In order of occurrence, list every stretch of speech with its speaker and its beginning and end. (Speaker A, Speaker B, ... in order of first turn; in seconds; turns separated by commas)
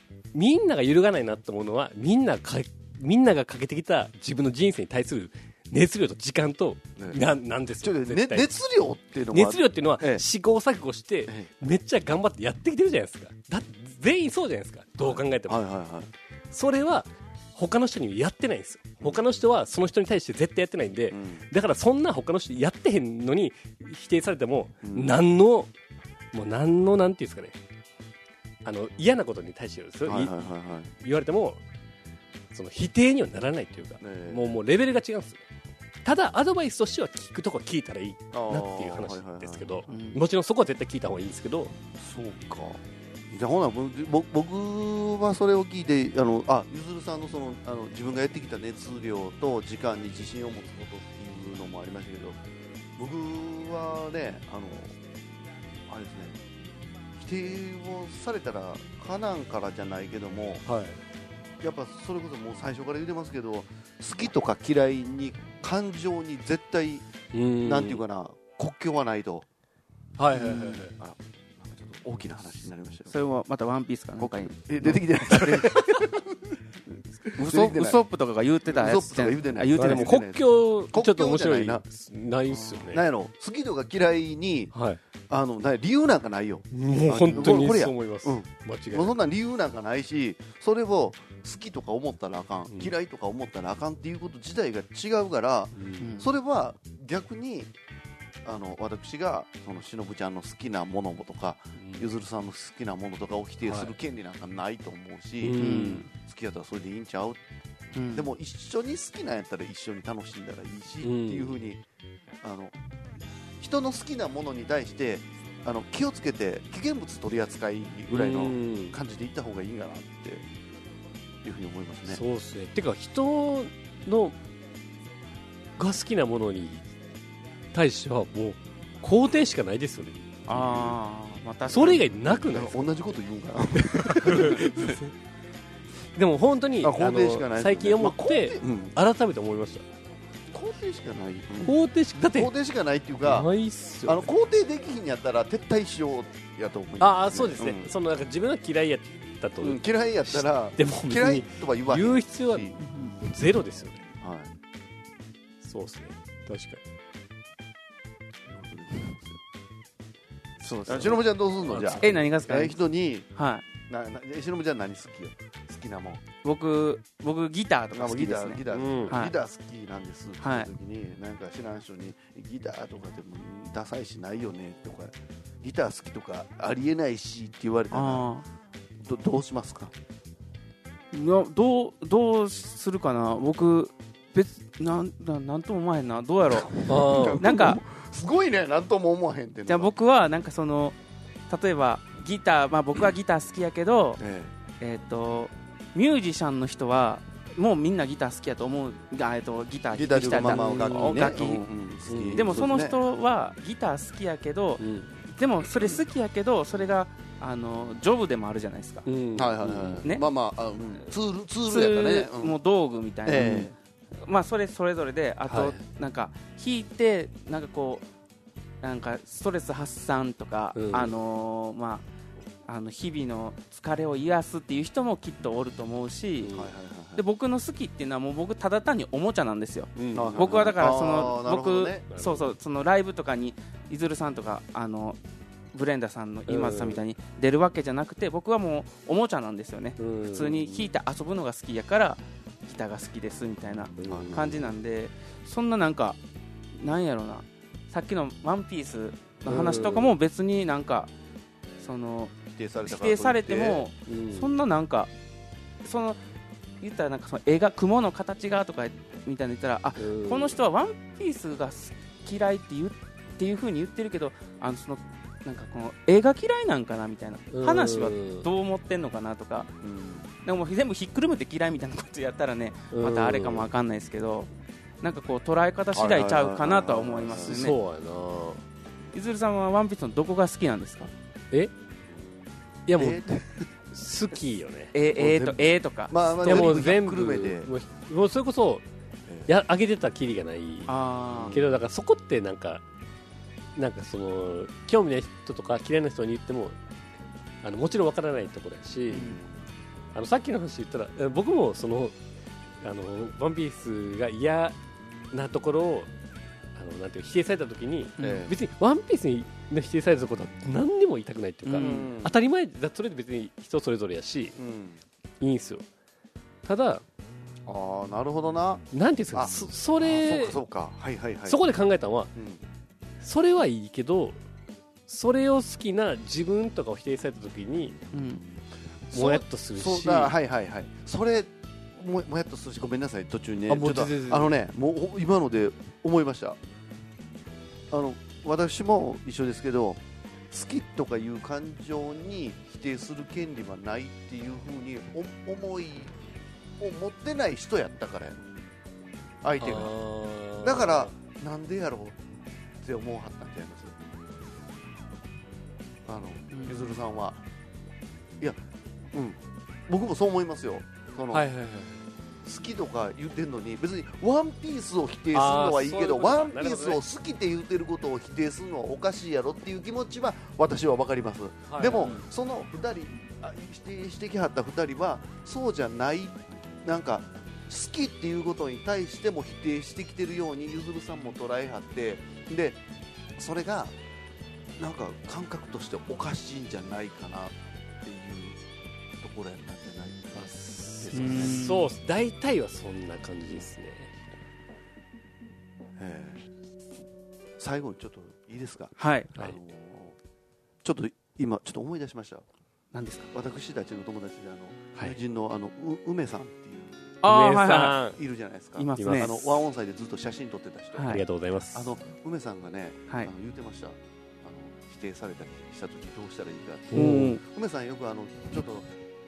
Speaker A: 0.3-8.5, Speaker B: 7.8-10.2, Speaker A: 9.3-15.6, Speaker B: 15.0-16.1, Speaker A: 16.5-25.7, Speaker B: 21.1-21.4, Speaker B: 24.8-25.1, Speaker A: 26.3-27.6, Speaker A: 28.6-30.3, Speaker B: 30.0-30.9, Speaker A: 31.0-31.6, Speaker A: 32.5-35.4, Speaker B: 34.0-34.5, Speaker A: 36.0-41.7, Speaker B: 38.3-39.8, Speaker C: 39.9-40.2, Speaker B: 42.0-52.4, Speaker B: 53.0-55.0, Speaker B: 55.9-56.4, Speaker B: 57.2-60.6, Speaker A: 60.6-61.0, Speaker B: 61.6-67.1, Speaker A: 67.3-68.0, Speaker B: 67.6-69.5, Speaker A: 70.2-70.9, Speaker B: 70.3-73.1, Speaker C: 73.1-75.6, Speaker B: 74.2-76.6, Speaker B: 77.2-78.0, Speaker C: 77.3-80.2, Speaker B: 78.7-81.8, Speaker A: 79.7-83.0, Speaker C: 82.5-82.8, Speaker B: 82.9-84.7, Speaker A: 84.7-85.0, Speaker B: 85.3-97.7, Speaker A: 86.7-89.1, Speaker A: 92.7-92.9, Speaker A: 95.8-96.2, Speaker C: 96.0-96.3, Speaker B: 98.4-107.4, Speaker A: 101.8-102.1, Speaker A: 103.6-103.9, Speaker A: 105.4-106.0, Speaker C: 105.6-106.1, Speaker C: 107.9-108.3, Speaker B: 108.1-111.8, Speaker A: 111.0-111.6, Speaker B: 112.4-112.7, Speaker B: 113.6-120.5, Speaker A: 118.1-119.0, Speaker B: 121.4-122.2, Speaker A: 122.1-124.3, Speaker A: 125.8-126.8, Speaker A: 127.7-130.4, Speaker C: 130.5-132.1, Speaker B: 130.5-131.0, Speaker A: 131.7-132.8, Speaker B: 131.8-134.7, Speaker A: 133.8-135.1, Speaker C: 134.3-134.7, Speaker A: 136.2-139.8, Speaker B: 136.8-138.9, Speaker B: 140.5-143.5, Speaker A: 141.6-142.5, Speaker A: 143.2-144.3, Speaker B: 144.1-147.9, Speaker A: 147.0-154.0, Speaker B: 149.6-152.8, Speaker C: 152.8-153.1, Speaker B: 154.2-154.5, Speaker A: 155.6-156.8, Speaker B: 158.5-159.4, Speaker C: 160.6-161.2, Speaker B: 160.8-163.3, Speaker A: 161.6-162.3, Speaker C: 162.0-162.8, Speaker C: 163.3-163.6, Speaker B: 163.8-166.2, Speaker C: 166.4-169.3, Speaker B: 167.9-178.3, Speaker A: 168.7-169.2, Speaker C: 170.4-170.7, Speaker C: 177.9-178.4, Speaker B: 179.0-179.9, Speaker C: 181.1-187.8, Speaker B: 186.6-189.9, Speaker A: 186.8-187.4, Speaker C: 189.7-190.9, Speaker C: 191.5-194.2, Speaker B: 194.2-194.5, Speaker C: 194.8-201.7, Speaker B: 199.9-203.0, Speaker A: 200.3-201.4, Speaker A: 202.1-202.7, Speaker C: 202.3-204.8, Speaker A: 204.8-205.1, Speaker C: 205.3-209.1, Speaker A: 209.1-210.1, Speaker B: 209.3-212.5, Speaker C: 211.7-218.0, Speaker B: 213.2-213.7, Speaker A: 213.3-213.7, Speaker A: 215.5-215.8, Speaker C: 218.8-222.0, Speaker A: 220.7-221.1, Speaker C: 222.7-226.5, Speaker A: 226.4-226.7, Speaker B: 226.5-227.2, Speaker C: 227.2-235.2, Speaker A: 229.9-230.7, Speaker B: 230.1-232.1, Speaker A: 232.1-232.5, Speaker C: 235.7-246.2, Speaker A: 236.5-237.0, Speaker A: 240.0-240.9, Speaker A: 243.9-244.6, Speaker B: 244.0-244.7, Speaker C: 246.8-251.1, Speaker A: 249.5-250.2, Speaker C: 251.8-255.1, Speaker B: 252.5-253.8, Speaker A: 254.1-254.5, Speaker C: 255.8-256.2, Speaker C: 256.8-269.7, Speaker A: 260.0-260.5, Speaker A: 267.5-268.5, Speaker B: 269.8-270.3, Speaker C: 270.4-274.5, Speaker A: 272.9-273.7, Speaker C: 275.0-277.8, Speaker B: 275.9-277.6, Speaker A: 277.3-278.6, Speaker C: 279.1-281.1, Speaker A: 282.9-283.3, Speaker B: 283.0-283.6, Speaker A: 283.9-284.9, Speaker C: 284.9-286.8, Speaker B: 285.1-287.7, Speaker A: 286.4-288.8, Speaker A: 289.5-290.9, Speaker C: 290.9-291.6, Speaker B: 291.3-291.8, Speaker A: 291.5-292.8, Speaker A: 293.8-296.8, Speaker A: 297.6-299.3, Speaker C: 299.1-299.4, Speaker B: 299.1-299.6, Speaker A: 300.1-302.1, Speaker A: 302.8-304.8, Speaker A: 305.3-306.1, Speaker A: 306.8-314.6, Speaker C: 308.2-308.5, Speaker B: 308.2-308.5, Speaker C: 311.6-312.1, Speaker B: 311.8-312.4, Speaker B: 314.6-315.0, Speaker A: 315.4-315.8, Speaker A: 316.6-317.0, Speaker B: 317.6-321.6, Speaker A: 318.9-320.6, Speaker A: 321.4-322.3, Speaker B: 322.3-322.6, Speaker A: 323.2-324.4, Speaker A: 325.1-327.9, Speaker C: 328.1-328.4, Speaker B: 329.1-336.6, Speaker A: 329.1-330.3, Speaker A: 333.7-334.5, Speaker B: 337.9-346.2, Speaker B: 346.8-348.4, Speaker B: 349.4-349.9, Speaker A: 349.6-351.1, Speaker B: 350.6-352.2, Speaker B: 352.8-354.0, Speaker B: 356.1-357.4, Speaker C: 356.5-356.9, Speaker B: 359.1-361.4, Speaker A: 361.3-362.0, Speaker B: 362.4-382.8, Speaker A: 365.3-367.0, Speaker A: 371.7-372.2, Speaker B: 383.4-383.9, Speaker B: 384.8-388.6, Speaker B: 389.2-391.6, Speaker A: 390.3-394.1, Speaker C: 391.1-391.9, Speaker B: 396.0-396.5, Speaker B: 397.6-400.2, Speaker C: 399.0-399.3, Speaker B: 400.8-402.4, Speaker C: 402.9-403.3, Speaker B: 403.3-407.2, Speaker C: 407.2-408.0, Speaker A: 407.2-408.2, Speaker B: 408.1-411.2, Speaker C: 408.8-409.4, Speaker A: 408.9-409.4, Speaker C: 411.0-411.2, Speaker A: 411.0-411.9, Speaker B: 411.7-418.9, Speaker A: 416.9-417.4, Speaker C: 416.9-417.4